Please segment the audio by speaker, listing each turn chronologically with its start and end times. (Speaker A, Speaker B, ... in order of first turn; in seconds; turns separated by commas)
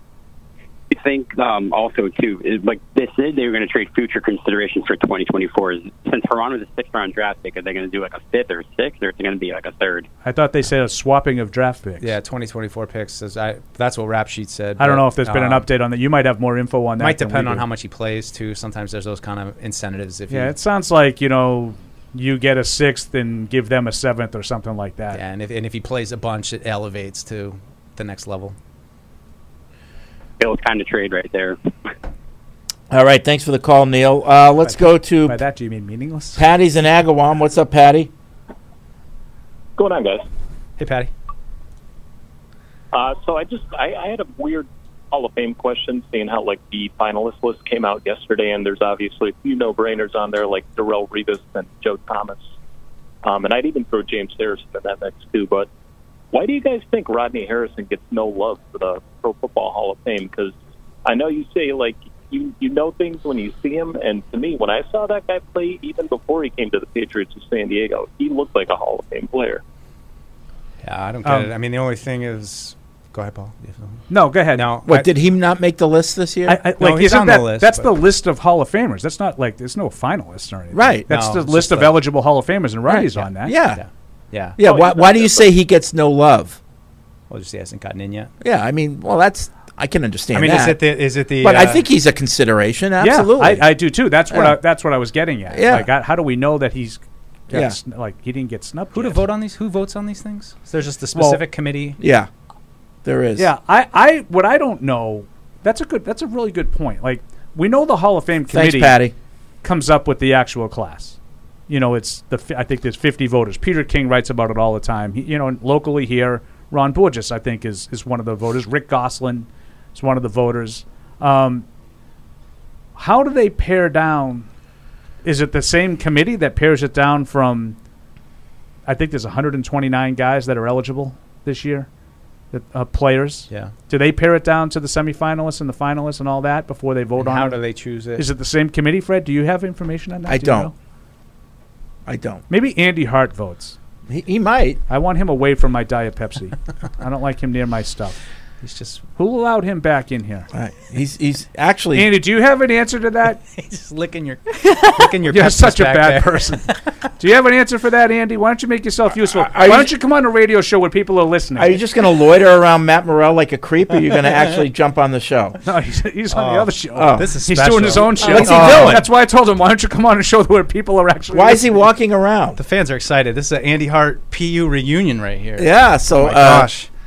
Speaker A: 0.9-10.1, Speaker B: 10.2-12.1, Speaker C: 12.0-15.7, Speaker B: 14.8-17.6, Speaker C: 17.0-20.5, Speaker B: 20.3-25.2, Speaker C: 25.1-28.6, Speaker A: 30.4-31.6, Speaker D: 32.9-35.4, Speaker B: 34.6-36.4, Speaker D: 36.4-38.1, Speaker E: 39.8-40.2, Speaker C: 40.8-41.1, Speaker E: 42.9-52.5, Speaker E: 53.2-55.7, Speaker E: 56.3-69.6, Speaker C: 70.8-74.0, Speaker B: 71.2-71.5, Speaker B: 74.1-74.7, Speaker C: 74.5-75.1, Speaker D: 74.9-76.6, Speaker B: 76.5-83.5, Speaker C: 76.8-77.9, Speaker D: 80.7-81.1, Speaker C: 81.1-82.0, Speaker C: 82.9-84.6, Speaker D: 83.5-83.8, Speaker D: 84.6-86.6, Speaker E: 84.6-85.0, Speaker C: 87.3-88.3, Speaker D: 88.4-90.8, Speaker C: 90.3-91.8, Speaker D: 91.4-93.7, Speaker B: 93.0-99.2, Speaker D: 94.3-94.6, Speaker D: 95.5-95.9, Speaker D: 97.5-97.8, Speaker C: 98.9-102.0, Speaker B: 101.2-101.4, Speaker D: 102.0-102.3, Speaker D: 103.0-103.5, Speaker B: 103.4-109.0, Speaker D: 108.5-109.1, Speaker B: 109.6-111.2, Speaker B: 111.7-121.7, Speaker B: 123.0-124.5, Speaker B: 125.2-127.8, Speaker B: 128.9-131.9, Speaker B: 132.5-137.6, Speaker C: 137.2-138.2, Speaker B: 138.2-140.7, Speaker D: 140.3-140.7, Speaker D: 142.1-142.4, Speaker B: 142.5-143.8, Speaker D: 144.1-144.8, Speaker B: 144.9-148.2, Speaker C: 148.6-149.0, Speaker B: 149.2-150.5, Speaker D: 150.5-152.2, Speaker B: 151.9-153.4, Speaker C: 153.5-156.8, Speaker B: 155.3-156.7, Speaker B: 157.2-161.8, Speaker D: 159.3-159.9, Speaker D: 161.6-165.6, Speaker B: 165.7-171.8, Speaker C: 166.3-169.0, Speaker D: 167.0-167.3, Speaker D: 168.2-169.0, Speaker D: 171.3-172.6, Speaker C: 172.6-176.9, Speaker D: 175.6-176.7